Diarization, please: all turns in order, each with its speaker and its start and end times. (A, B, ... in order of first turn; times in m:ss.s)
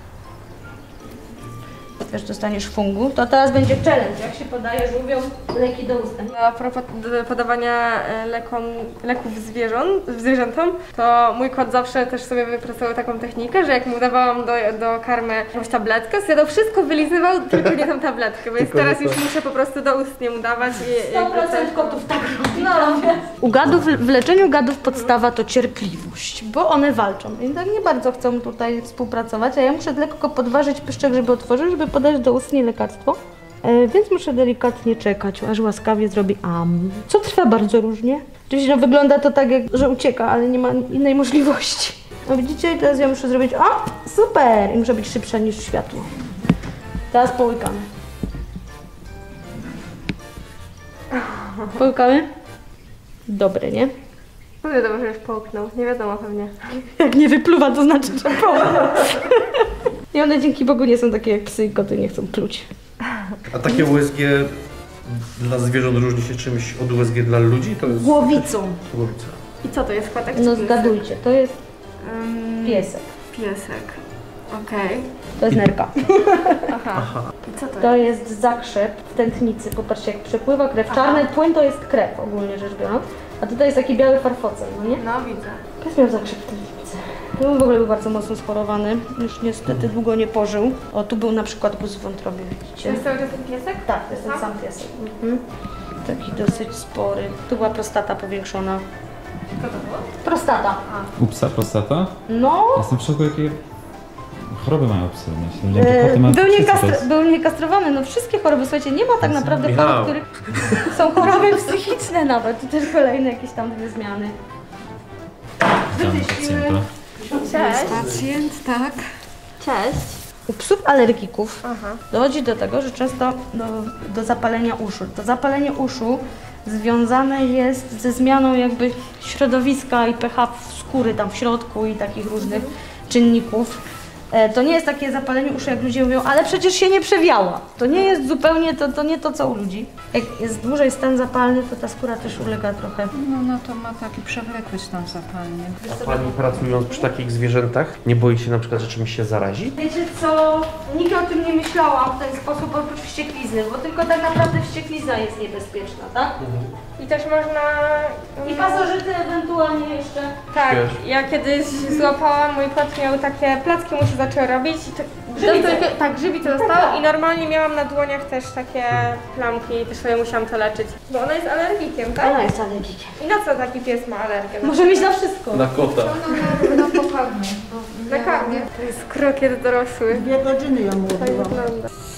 0:02.0-0:06.3 A
0:06.3-0:23.3 B
0:18.6-0:19.2 C
0:21.0-0:46.1 A
0:47.1-0:47.8 A
0:51.1-0:51.7 B
0:51.7-0:52.3 A
0:53.3-0:53.9 A
0:54.6-0:56.8 B
0:56.8-1:02.7 A
1:03.5-1:04.5 C
1:05.0-1:09.4 C
1:07.9-1:08.8 A
1:09.6-1:11.0 B
1:10.3-1:11.6 A
1:12.0-1:15.1 B
1:12.6-1:13.0 A
1:15.4-1:16.7 A
1:16.7-1:17.9 B
1:17.0-1:17.2 C
1:17.8-1:25.0 A
1:20.9-1:21.2 B
1:25.0-1:25.6 B
1:25.8-1:33.0 A
1:32.8-1:34.4 B
1:33.8-1:35.4 A
1:36.0-1:38.8 A
1:39.6-1:40.1 B
1:40.2-1:40.8 A
1:41.2-1:42.2 D
1:42.3-1:42.8 A
1:42.7-1:43.6 D
1:44.5-1:47.0 D
1:45.7-1:50.3 A
1:49.5-1:50.9 C
1:50.8-1:54.3 A
1:55.9-1:56.9 D
1:55.9-1:58.2 A
1:57.3-1:58.8 E
1:57.4-1:59.0 B
1:59.6-2:00.2 B
2:00.5-2:13.8 A
2:01.6-2:02.0 B
2:12.4-2:12.7 B
2:14.3-2:23.1 A
2:23.1-2:25.9 E
2:25.8-2:29.8 C
2:25.9-2:26.4 A
2:29.8-2:36.4 A
2:36.4-2:36.7 C
2:37.0-2:38.9 B
2:38.4-2:40.4 A
2:40.5-2:52.4 B
2:40.6-2:41.0 C
2:45.3-2:47.0 A
2:52.2-2:53.2 A
2:53.2-2:55.2 B
2:54.6-2:55.7 A
2:55.5-2:56.3 C
2:55.8-2:58.7 E
2:58.1-3:00.3 B
3:00.1-3:01.6 E
3:01.2-3:01.9 B